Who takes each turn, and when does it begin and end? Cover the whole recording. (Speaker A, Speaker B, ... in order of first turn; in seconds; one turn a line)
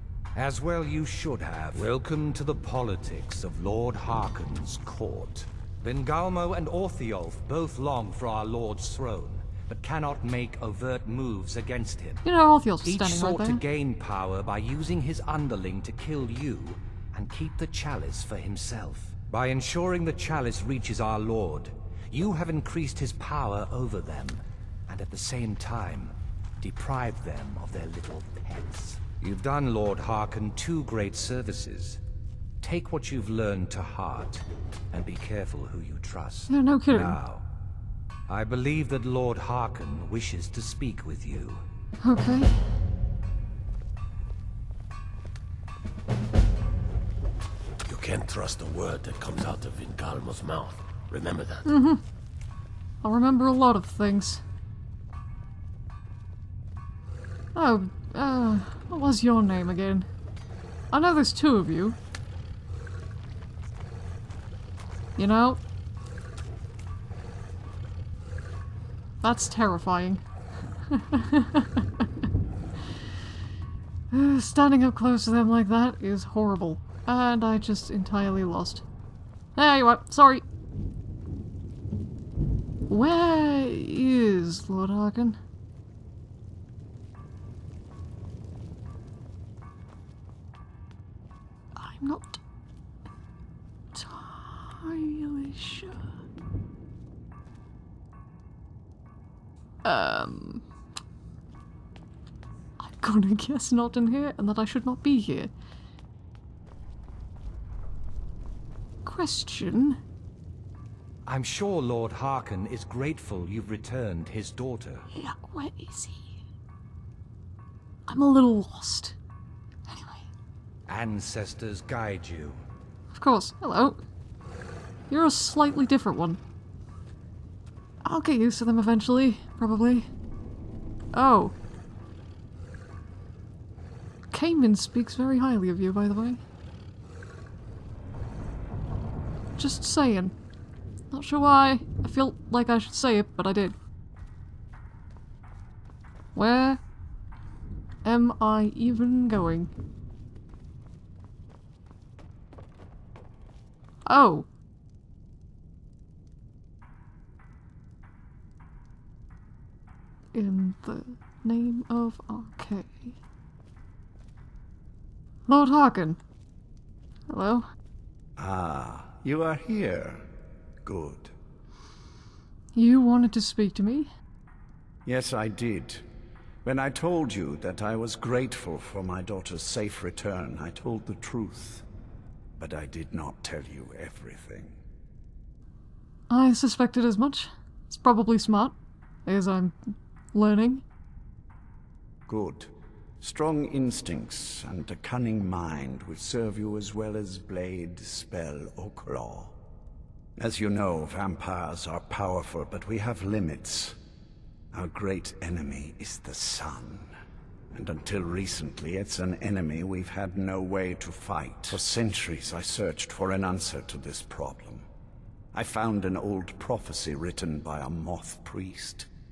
Speaker A: 0.3-12.2
Speaker B: 12.2-13.6
Speaker A: 12.8-32.0
Speaker A: 32.6-37.4
Speaker B: 36.5-37.2
Speaker A: 38.3-41.6
Speaker B: 42.0-42.6
Speaker C: 47.9-51.7
Speaker B: 51.7-52.0
Speaker B: 53.0-54.4
Speaker B: 57.5-60.1
Speaker B: 60.9-62.0
Speaker B: 65.2-65.6
Speaker B: 69.2-70.2
Speaker B: 70.9-71.9
Speaker B: 74.1-78.8
Speaker B: 79.6-80.4
Speaker B: 82.9-85.4
Speaker B: 91.8-92.4
Speaker B: 93.9-96.1
Speaker B: 99.8-100.6
Speaker B: 102.8-105.5
Speaker B: 109.0-110.0
Speaker A: 111.3-115.1
Speaker B: 115.1-116.3
Speaker B: 118.1-119.2
Speaker B: 119.9-120.3
Speaker A: 120.9-122.6
Speaker B: 123.1-124.0
Speaker B: 125.1-126.4
Speaker B: 128.0-130.1
Speaker B: 131.1-131.5
Speaker B: 134.3-136.4
Speaker B: 139.6-140.3
Speaker B: 141.1-143.7
Speaker B: 146.3-146.8
Speaker B: 148.0-149.7
Speaker B: 154.1-154.5
Speaker B: 160.3-163.2
Speaker B: 165.5-166.2
Speaker B: 167.3-167.7
Speaker D: 168.4-170.2
Speaker D: 170.8-171.3
Speaker B: 172.7-174.1
Speaker D: 175.1-176.1
Speaker D: 176.6-181.8
Speaker D: 182.6-184.8
Speaker B: 186.3-188.7
Speaker B: 189.3-189.7
Speaker B: 190.3-190.8
Speaker D: 192.3-199.6
Speaker D: 200.4-204.0
Speaker D: 204.7-207.1
Speaker D: 207.7-214.9
Speaker D: 215.5-219.1